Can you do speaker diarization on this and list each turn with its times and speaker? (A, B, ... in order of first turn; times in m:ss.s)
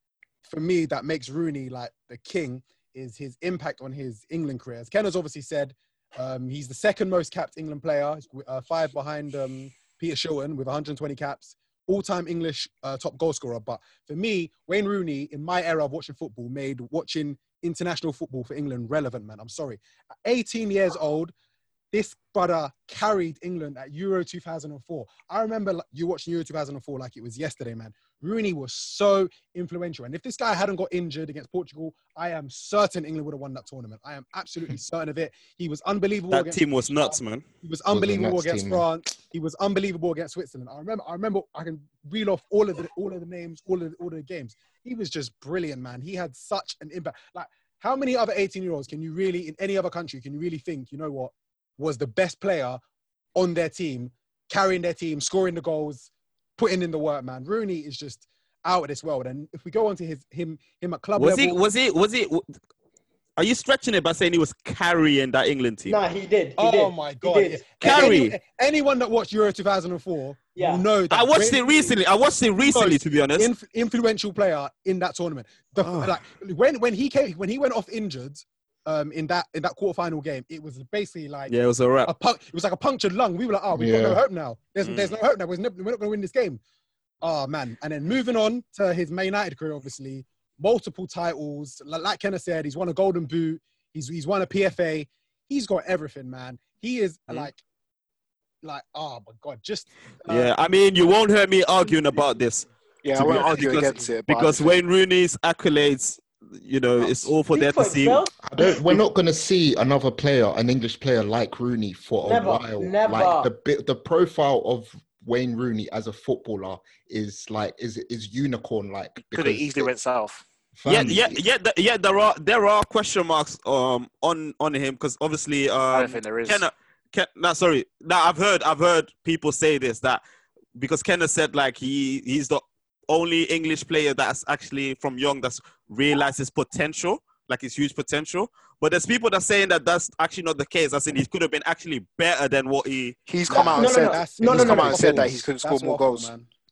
0:00.4-0:21.3 A
0:21.9-0:52.8 A
0:36.3-0:37.4 B
0:37.9-0:38.9 C
0:53.4-1:01.6 A
1:01.2-1:02.4 B
1:03.4-1:06.0 B
1:05.9-1:08.2 D
1:06.6-1:11.9 A
1:07.8-1:08.3 B
1:10.5-1:10.8 D
1:11.1-1:13.5 B
1:12.6-1:21.5 A
1:15.8-1:16.2 B
1:21.5-1:22.1 B
1:22.0-1:26.6 A
1:23.7-1:24.2 C
1:24.8-1:25.2 B
1:27.2-1:37.6 A
1:38.6-1:40.5 A
1:40.3-1:48.2 B
1:43.0-1:44.8 E
1:47.0-1:47.3 E
1:47.5-1:48.4 D
1:48.4-1:59.9 C
1:52.2-1:53.5 D
1:59.2-2:00.4 E
2:00.8-2:01.4 C
2:00.9-2:10.2 B
2:05.9-2:06.7 E
2:10.8-2:23.2 B
2:23.3-2:26.3 E
2:23.5-2:26.5 A
2:23.5-2:25.2 D